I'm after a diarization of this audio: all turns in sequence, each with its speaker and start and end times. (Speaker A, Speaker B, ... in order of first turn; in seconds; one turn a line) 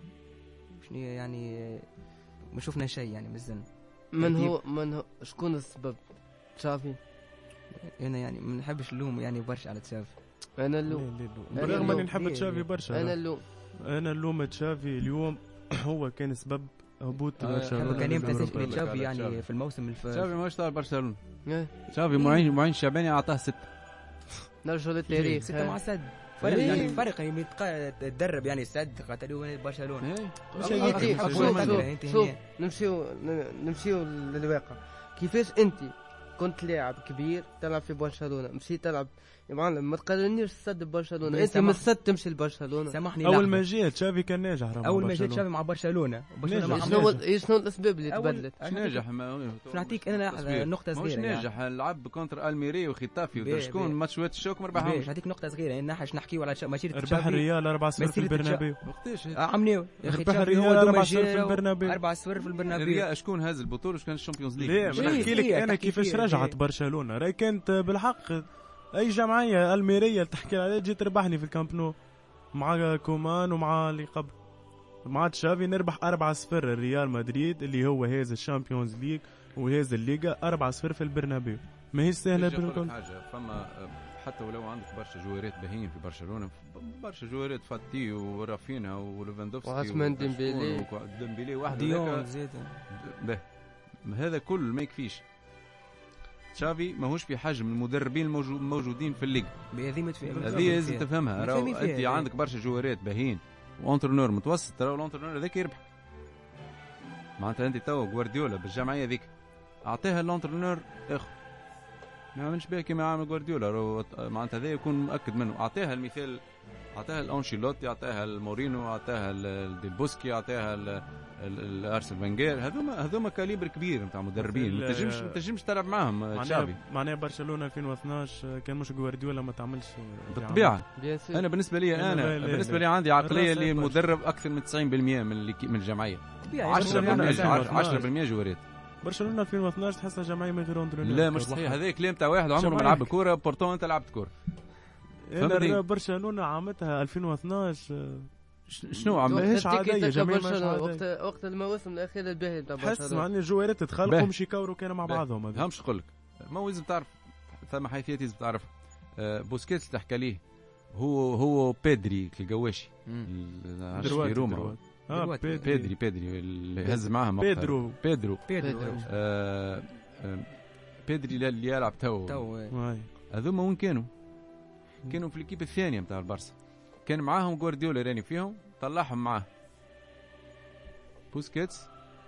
Speaker A: 0.7-1.9
Speaker A: 2.5-3.6
Speaker B: 4.1-6.0
Speaker A: 4.2-4.5
Speaker B: 6.5-7.0
Speaker A: 7.7-10.2
Speaker B: 10.6-12.1
Speaker C: 10.9-13.2
Speaker A: 11.6-12.7
Speaker B: 12.9-13.4
Speaker C: 13.8-18.9
Speaker D: 17.4-19.4
Speaker A: 17.7-20.3
Speaker D: 20.1-21.2
Speaker B: 21.4-21.7
Speaker D: 21.9-23.7
Speaker A: 22.1-22.4
Speaker B: 24.6-25.8
Speaker C: 25.1-25.4
Speaker A: 25.4-32.4
Speaker B: 26.4-27.0
Speaker C: 26.4-26.9
Speaker D: 30.0-31.9
Speaker C: 30.6-31.9
Speaker B: 30.6-43.0
Speaker A: 41.3-41.8
Speaker A: 42.9-43.6
Speaker C: 43.2-45.5
Speaker A: 44.8-47.2
Speaker C: 46.4-47.2
Speaker B: 46.7-48.5
Speaker A: 48.1-49.0
Speaker D: 48.6-55.1
Speaker A: 49.7-51.5
Speaker A: 53.4-54.0
Speaker A: 54.7-58.6
Speaker C: 56.9-58.8
Speaker D: 58.9-59.4
Speaker A: 59.4-63.1
Speaker C: 60.0-62.0
Speaker D: 62.7-65.4
Speaker C: 64.6-72.0
Speaker A: 64.9-66.5
Speaker C: 72.5-74.3
Speaker C: 75.0-82.9
Speaker D: 82.3-92.3
Speaker B: 89.6-90.9
Speaker A: 91.7-92.8
Speaker D: 92.9-93.4
Speaker D: 94.0-95.2
Speaker D: 96.5-99.5
Speaker A: 99.7-102.3
Speaker C: 100.2-100.9
Speaker D: 100.4-105.8
Speaker D: 107.4-109.3
Speaker D: 109.8-111.3
Speaker D: 112.3-116.4
Speaker D: 116.9-126.8
Speaker C: 124.4-125.4
Speaker C: 126.3-130.8
Speaker D: 130.3-138.6
Speaker B: 131.0-131.4
Speaker C: 131.9-134.2
Speaker A: 136.4-138.0
Speaker C: 136.7-138.1
Speaker C: 139.0-141.8
Speaker D: 141.0-144.3
Speaker C: 142.6-143.1
Speaker C: 145.2-148.3
Speaker D: 145.4-145.8
Speaker D: 148.7-149.5
Speaker C: 148.9-151.0
Speaker B: 149.3-153.2
Speaker C: 152.8-155.7
Speaker D: 154.1-154.3
Speaker D: 155.0-160.4
Speaker D: 160.9-164.8
Speaker C: 163.9-165.9
Speaker A: 164.0-164.3
Speaker A: 165.1-165.7
Speaker D: 165.6-168.4
Speaker C: 166.9-168.0
Speaker A: 168.5-169.1
Speaker B: 168.6-169.1
Speaker D: 169.0-170.5
Speaker D: 171.0-172.5
Speaker A: 172.3-172.8
Speaker C: 172.7-173.1
Speaker D: 173.3-174.1
Speaker D: 175.1-176.5
Speaker D: 177.1-179.4
Speaker D: 181.3-181.9